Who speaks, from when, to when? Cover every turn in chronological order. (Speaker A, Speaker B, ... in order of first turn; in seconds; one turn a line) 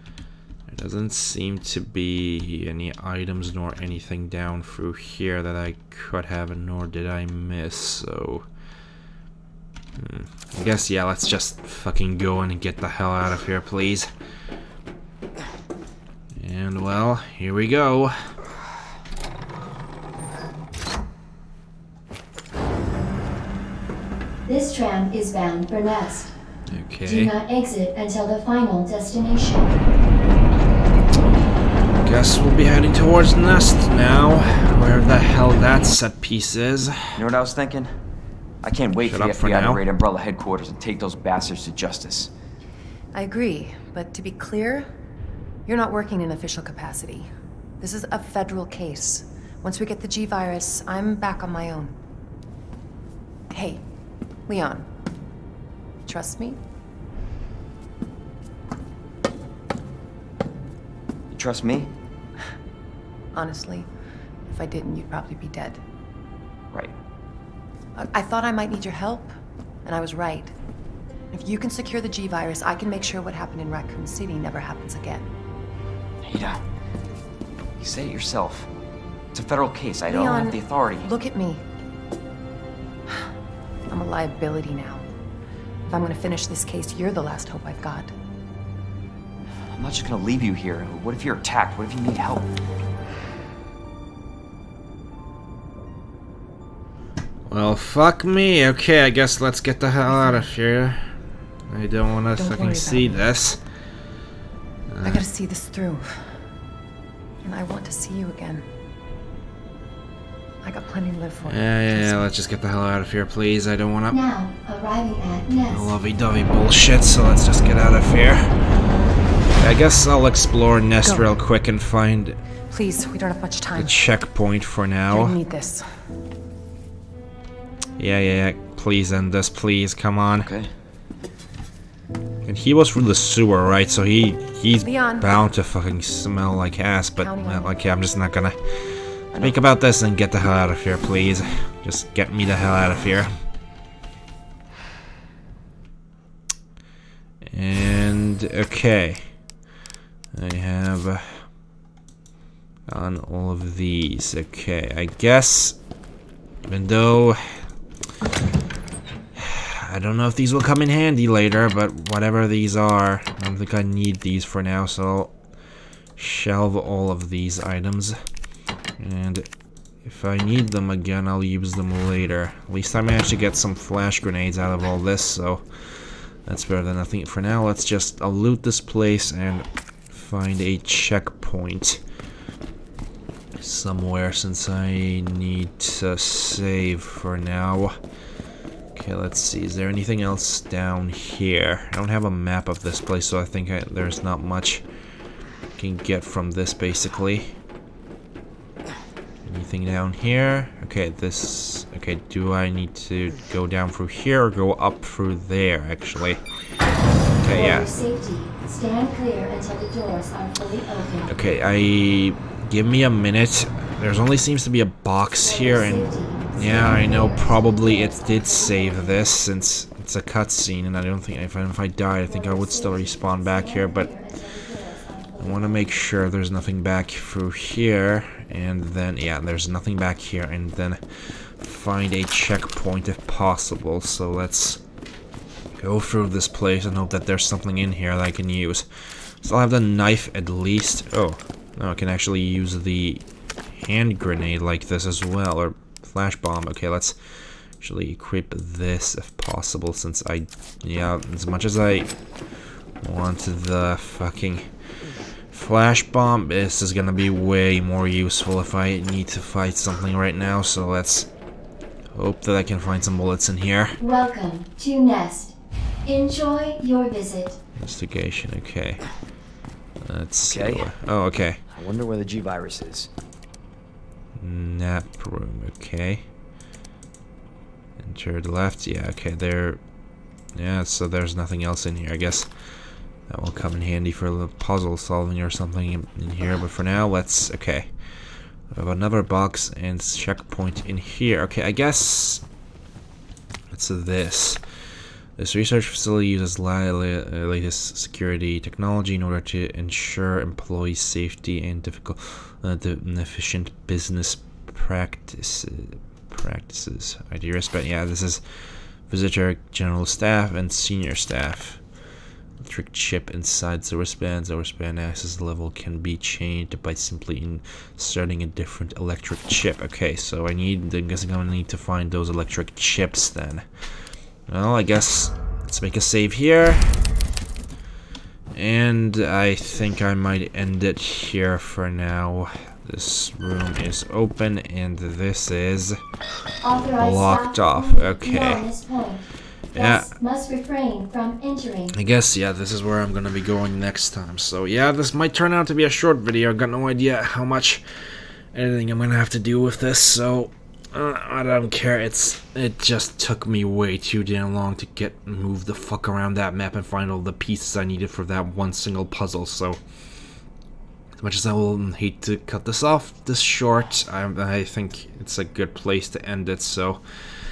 Speaker A: 0.7-8.5
Speaker A: 10.0-14.1
Speaker A: 16.4-18.3
Speaker B: 24.4-26.3
Speaker A: 26.7-27.3
Speaker B: 27.1-29.7
Speaker A: 32.0-37.2
Speaker C: 37.2-38.0
Speaker C: 38.6-42.3
Speaker A: 39.0-39.8
Speaker D: 43.1-44.9
Speaker D: 45.7-47.3
Speaker D: 47.8-52.0
Speaker D: 53.5-53.8
Speaker D: 54.5-54.9
Speaker D: 56.1-56.6
Speaker C: 61.3-61.9
Speaker D: 63.3-63.9
Speaker D: 64.5-65.8
Speaker D: 68.0-69.3
Speaker D: 69.8-70.5
Speaker D: 71.3-75.3
Speaker C: 76.2-76.6
Speaker C: 77.8-78.7
Speaker C: 79.3-81.1
Speaker D: 80.1-81.6
Speaker D: 83.9-85.1
Speaker D: 85.9-88.1
Speaker C: 89.7-92.5
Speaker A: 97.5-101.1
Speaker D: 100.2-100.5
Speaker A: 101.7-103.6
Speaker D: 102.3-103.3
Speaker A: 104.9-105.2
Speaker D: 105.0-106.4
Speaker D: 107.4-108.7
Speaker D: 110.6-112.3
Speaker A: 111.5-114.2
Speaker B: 114.1-115.9
Speaker A: 115.7-118.5
Speaker A: 119.6-122.4
Speaker D: 121.0-121.3
Speaker D: 122.7-124.1
Speaker A: 123.8-125.4
Speaker D: 125.1-126.0
Speaker A: 128.0-130.5
Speaker C: 130.4-130.7
Speaker A: 132.4-138.6
Speaker D: 134.8-135.3
Speaker D: 137.2-137.8
Speaker C: 139.3-139.6
Speaker A: 139.4-143.3
Speaker A: 147.4-149.3
Speaker A: 150.3-151.5
Speaker A: 152.9-155.8
Speaker A: 156.7-157.6
Speaker A: 159.4-165.3
Speaker A: 166.2-168.2
Speaker A: 169.0-169.5
Speaker A: 170.1-175.7
Speaker A: 176.4-182.0
Speaker A: 183.6-188.0
Speaker A: 188.9-194.8
Speaker A: 195.8-197.6
Speaker A: 199.4-206.4
Speaker A: 207.4-207.9
Speaker B: 207.4-211.3
Speaker A: 211.3-224.1
Speaker B: 215.4-219.3
Speaker B: 222.3-226.0
Speaker A: 225.4-234.8
Speaker A: 235.8-247.2
Speaker A: 247.8-252.1
Speaker A: 253.0-254.7
Speaker A: 255.5-261.3
Speaker A: 262.1-264.0
Speaker B: 264.0-267.6
Speaker A: 267.8-269.1
Speaker A: 270.0-271.6
Speaker C: 270.5-270.9
Speaker C: 271.7-273.1
Speaker A: 274.4-276.3
Speaker A: 278.0-279.8
Speaker A: 280.6-282.5
Speaker A: 283.3-287.9
Speaker A: 288.7-292.4
Speaker A: 293.7-294.6
Speaker A: 295.4-308.4
Speaker A: 309.1-311.8
Speaker A: 312.6-323.6
Speaker A: 324.5-326.9
Speaker A: 328.6-336.0
Speaker B: 336.6-341.9
Speaker A: 337.0-338.7
Speaker A: 339.8-340.1
Speaker A: 341.9-347.8
Speaker A: 348.5-359.8
Speaker A: 361.2-367.0